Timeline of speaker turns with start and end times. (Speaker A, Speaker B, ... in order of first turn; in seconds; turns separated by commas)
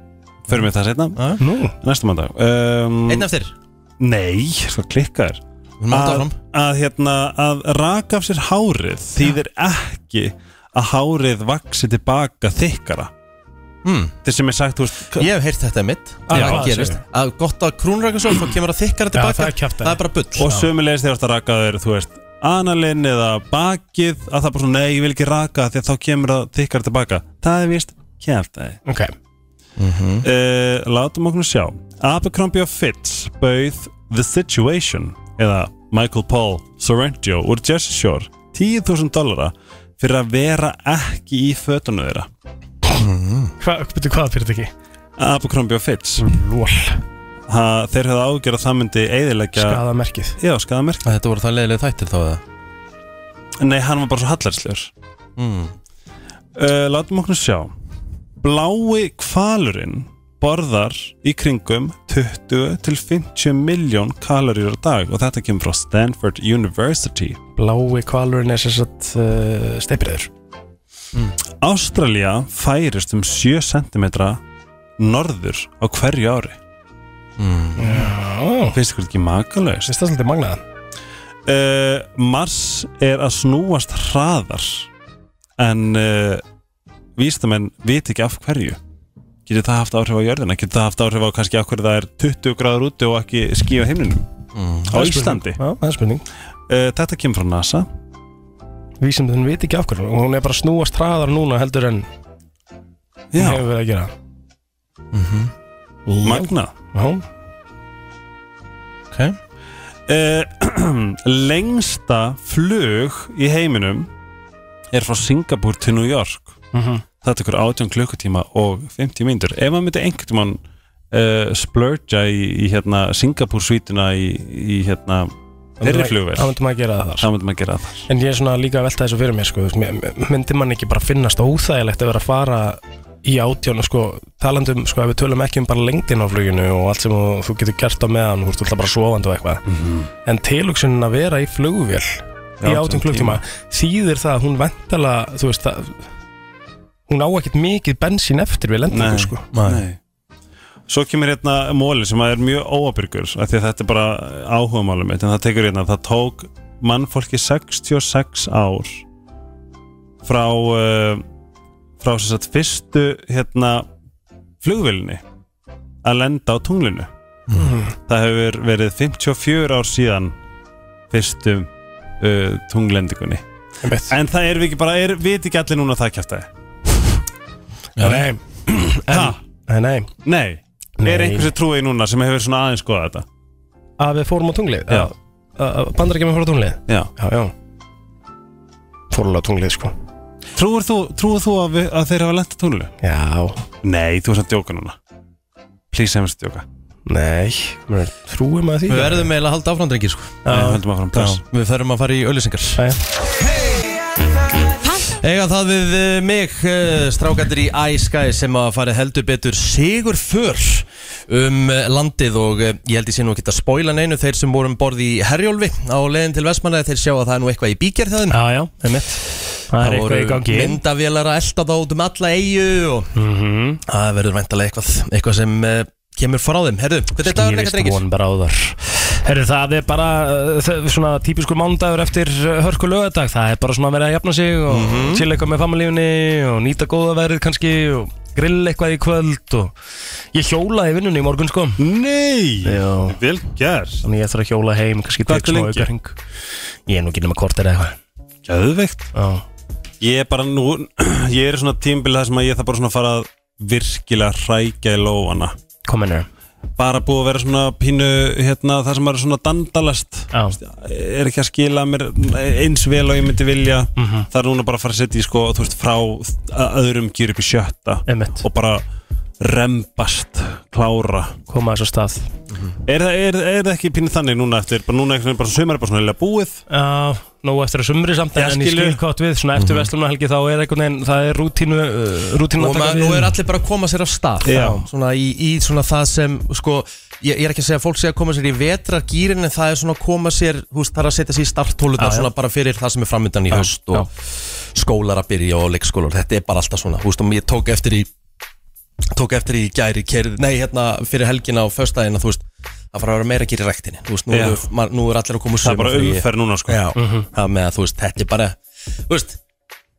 Speaker A: 0.5-1.2, Speaker B: 1.2-1.4, Speaker C: 1.4-1.8, Speaker A: 1.8-3.3, Speaker B: 3.1-3.5, Speaker A: 4.0-5.4, Speaker B: 5.8-6.4, Speaker A: 5.9-13.1, Speaker B: 13.8-14.2, Speaker A: 14.2-15.3, Speaker B: 15.2-20.5, Speaker C: 16.3-17.0, Speaker A: 16.3-16.8, Speaker C: 19.1-20.7, Speaker A: 20.4-28.8, Speaker C: 28.9-29.1, Speaker B: 29.8-30.3, Speaker A: 30.2-42.3, Speaker B: 42.9-43.5, Speaker C: 43.6-44.7, Speaker A: 45.2-46.2, Speaker C: 46.2-47.0, Speaker A: 47.5-49.8, Speaker C: 49.5-50.4, Speaker A: 50.4-51.1, Speaker B: 51.0-52.4, Speaker A: 53.6-54.9, Speaker B: 55.4-55.7, Speaker A: 56.6-57.7, Speaker A: 58.4-67.4, Speaker C: 67.6-70.3, Speaker A: 71.6-74.4, Speaker A: 75.0-76.6, Speaker B: 77.4-78.1, Speaker C: 77.8-78.8, Speaker A: 78.7-79.9, Speaker C: 79.8-80.6, Speaker A: 81.5-84.9, Speaker A: 85.6-86.4, Speaker A: 87.2-88.8, Speaker A: 89.5-94.3, Speaker B: 94.5-94.9, Speaker A: 94.9-95.6, Speaker C: 94.9-96.2, Speaker A: 96.7-97.9, Speaker C: 99.0-102.1, Speaker A: 103.3-103.6, Speaker C: 103.4-104.1, Speaker B: 105.1-105.5, Speaker C: 106.1-107.2, Speaker A: 106.2-106.7, Speaker B: 109.1-109.4, Speaker A: 110.1-114.1, Speaker A: 114.9-116.6, Speaker C: 116.7-117.0, Speaker A: 117.2-120.6, Speaker A: 121.1-126.6, Speaker C: 125.8-127.3, Speaker A: 127.2-128.1, Speaker C: 128.1-139.6, Speaker A: 139.7-140.1, Speaker C: 140.2-146.0, Speaker A: 142.6-143.4, Speaker C: 147.1-149.4, Speaker A: 148.9-150.0, Speaker B: 149.5-149.8, Speaker A: 150.9-159.0, Speaker A: 160.2-161.2, Speaker A: 162.0-163.9, Speaker A: 164.6-165.2, Speaker A: 166.0-167.1, Speaker C: 167.6-167.9, Speaker A: 168.1-170.4, Speaker A: 171.1-171.7, Speaker A: 172.2-173.4, Speaker C: 173.8-174.2, Speaker A: 174.1-176.5, Speaker B: 178.0-178.3, Speaker C: 178.0-180.1, Speaker A: 179.0-179.4, Speaker A: 180.2-183.2, Speaker C: 181.0-181.5, Speaker C: 184.0-187.5, Speaker A: 184.9-185.1, Speaker C: 189.1-189.9, Speaker A: 190.6-192.9, Speaker C: 193.0-193.6, Speaker A: 193.8-195.0, Speaker A: 195.9-196.7, Speaker C: 197.1-199.3, Speaker B: 198.9-200.5, Speaker C: 200.4-200.8, Speaker A: 200.5-201.4, Speaker B: 201.1-202.9, Speaker C: 202.8-203.0, Speaker B: 204.8-218.4, Speaker C: 218.3-220.8, Speaker B: 219.8-223.1, Speaker C: 223.2-223.8, Speaker B: 223.8-228.0, Speaker C: 227.2-239.7, Speaker B: 234.7-235.3, Speaker C: 240.3-241.8, Speaker A: 241.8-244.1, Speaker C: 242.6-243.2, Speaker C: 244.0-246.2, Speaker A: 245.2-245.9, Speaker C: 246.9-248.0, Speaker A: 248.4-249.1, Speaker C: 249.1-249.4, Speaker A: 250.0-255.5, Speaker C: 255.9-256.3, Speaker A: 256.8-268.9, Speaker C: 260.3-260.6, Speaker C: 264.0-264.3, Speaker C: 268.1-268.4, Speaker A: 269.4-271.4, Speaker C: 271.5-272.3, Speaker A: 272.9-276.6, Speaker C: 276.7-283.4, Speaker A: 278.4-279.0, Speaker B: 279.6-279.9, Speaker B: 282.6-298.1, Speaker A: 284.4-284.8, Speaker C: 284.5-284.9, Speaker C: 292.0-292.3, Speaker C: 293.5-294.1, Speaker B: 299.1-309.4, Speaker A: 304.3-304.7, Speaker A: 305.6-306.8, Speaker C: 306.9-307.3